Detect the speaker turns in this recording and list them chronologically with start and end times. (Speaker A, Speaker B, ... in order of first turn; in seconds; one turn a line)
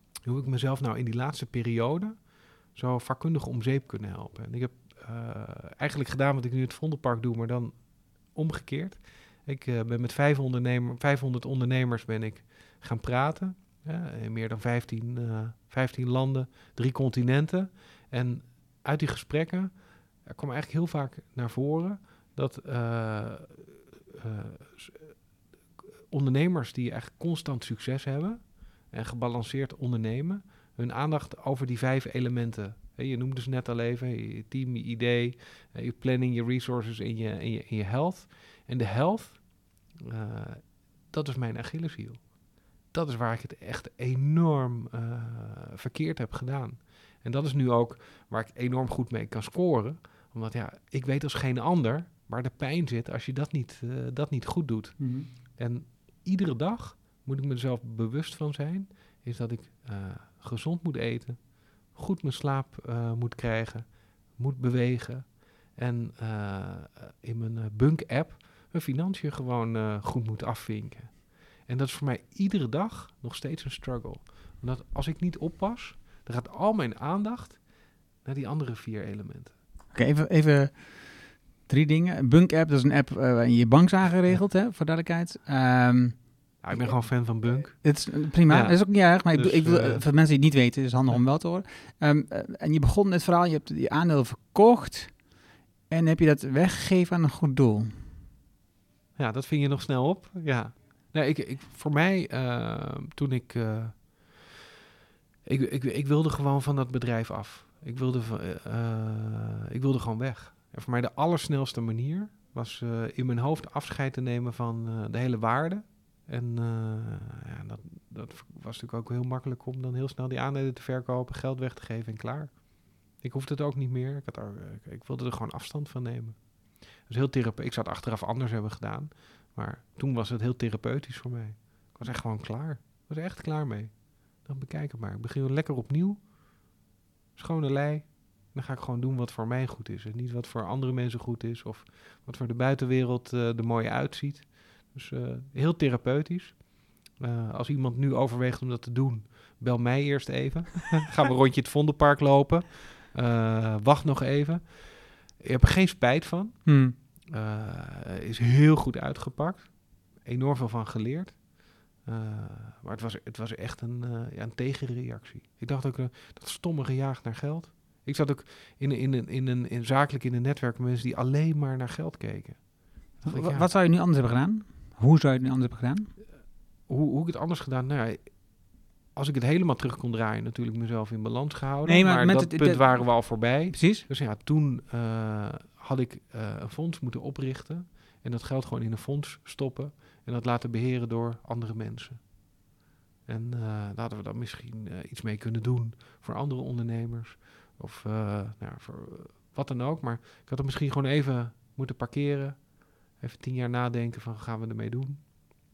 Speaker A: 0.2-25.2
Speaker A: 26.1-42.4
Speaker A: 42.9-77.7
Speaker B: 55.0-55.3
Speaker A: 78.2-79.5
Speaker B: 79.9-95.3
Speaker A: 86.6-90.1
Speaker B: 95.9-98.1
Speaker A: 99.2-104.5
Speaker A: 105.5-136.3
Speaker A: 137.4-161.5
Speaker B: 156.7-156.9
Speaker A: 162.0-173.7
Speaker B: 173.2-176.1
Speaker A: 176.9-178.5
Speaker A: 179.1-192.3
Speaker B: 181.9-184.1
Speaker A: 193.3-205.3